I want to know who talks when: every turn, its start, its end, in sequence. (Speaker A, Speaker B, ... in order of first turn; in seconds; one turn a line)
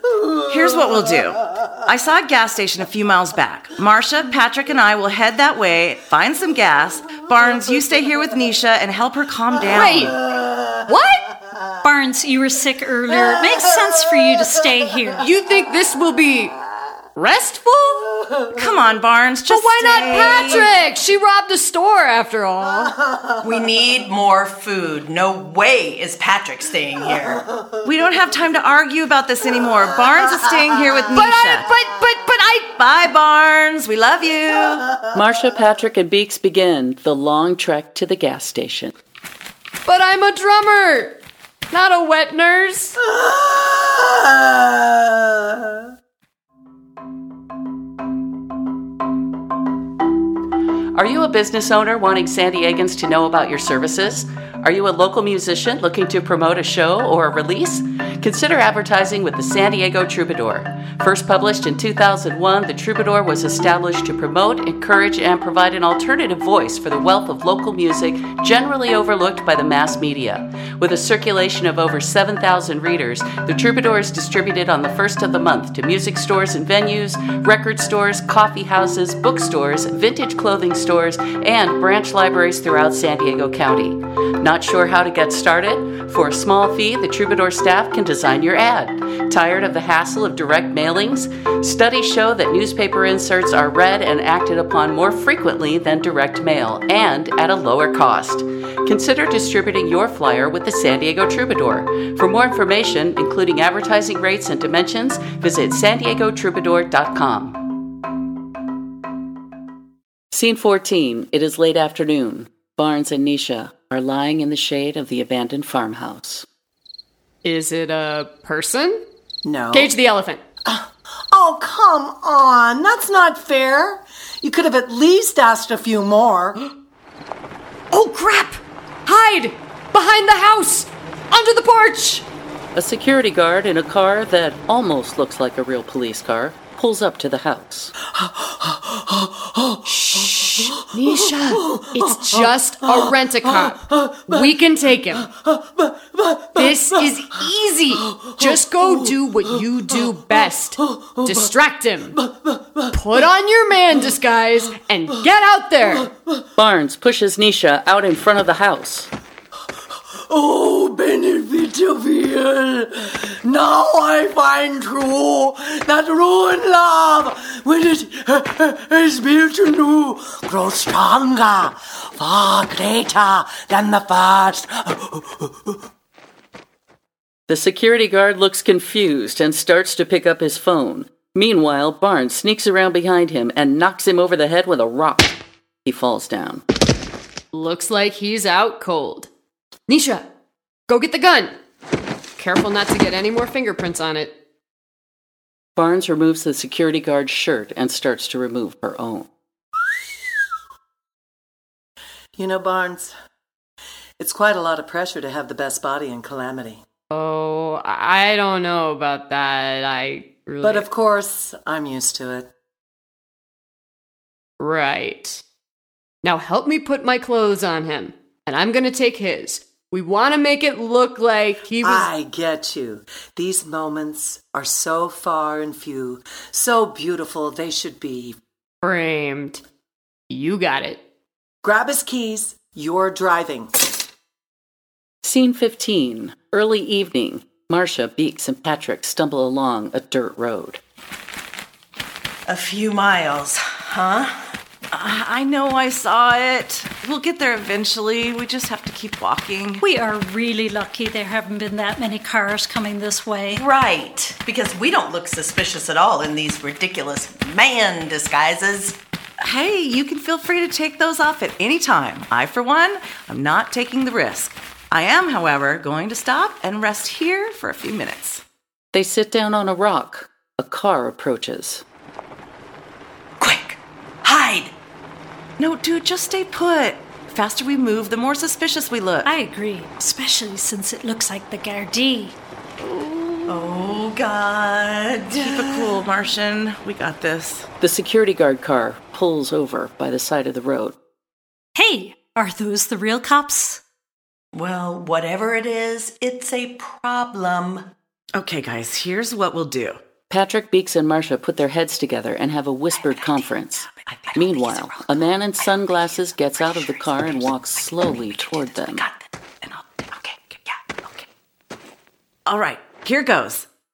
Speaker A: 0.5-10.2
Speaker B: 9.7-10.2
Speaker B: 10.9-11.3
Speaker C: 11.8-15.3
Speaker B: 15.2-16.5
Speaker B: 17.1-18.1
Speaker A: 18.5-20.7
Speaker B: 19.5-23.0
Speaker D: 23.4-27.4
Speaker A: 27.8-31.7
Speaker B: 31.1-32.7
Speaker A: 32.7-34.9
Speaker E: 35.1-38.9
Speaker B: 39.9-41.2
Speaker B: 41.7-43.0
Speaker F: 43.1-45.8
Speaker E: 50.9-107.6
Speaker E: 110.3-116.5
Speaker B: 117.4-119.0
Speaker F: 119.4-119.9
Speaker B: 119.7-120.4
Speaker F: 120.7-126.6
Speaker B: 127.9-132.2
Speaker E: 132.7-137.9
Speaker F: 138.1-144.5
Speaker B: 139.8-145.3
Speaker F: 145.2-147.1
Speaker B: 146.6-152.2
Speaker F: 148.0-149.1
Speaker F: 150.3-151.5
Speaker F: 152.1-152.9
Speaker B: 152.9-156.1
Speaker F: 156.0-156.4
Speaker E: 156.6-159.1
Speaker F: 160.3-175.8
Speaker E: 177.5-186.6
Speaker B: 187.5-189.3
Speaker B: 189.9-190.2
Speaker B: 190.9-191.5
Speaker B: 192.4-194.3
Speaker E: 195.8-199.3
Speaker F: 202.3-203.1
Speaker F: 204.2-206.8
Speaker B: 207.1-210.9
Speaker F: 210.6-212.5
Speaker B: 214.6-215.4
Speaker B: 216.2-222.1
Speaker F: 221.8-228.4
Speaker B: 228.8-229.6
Speaker B: 230.3-231.0
Speaker F: 231.6-233.7
Speaker E: 235.2-240.8
Speaker D: 242.5-244.5
Speaker A: 244.9-249.8
Speaker C: 249.8-253.6
Speaker D: 253.5-259.0
Speaker A: 259.4-268.4
Speaker E: 268.9-271.8
Speaker D: 273.4-274.7
Speaker A: 275.6-279.3
Speaker C: 279.2-282.4
Speaker A: 282.8-283.8
Speaker D: 283.5-286.0
Speaker A: 285.3-287.7
Speaker E: 287.8-291.0
Speaker C: 291.8-293.8
Speaker D: 294.5-297.9
Speaker A: 298.3-300.0
Speaker E: 300.3-309.0
Speaker A: 303.9-305.2
Speaker A: 308.7-311.2
Speaker A: 312.4-313.7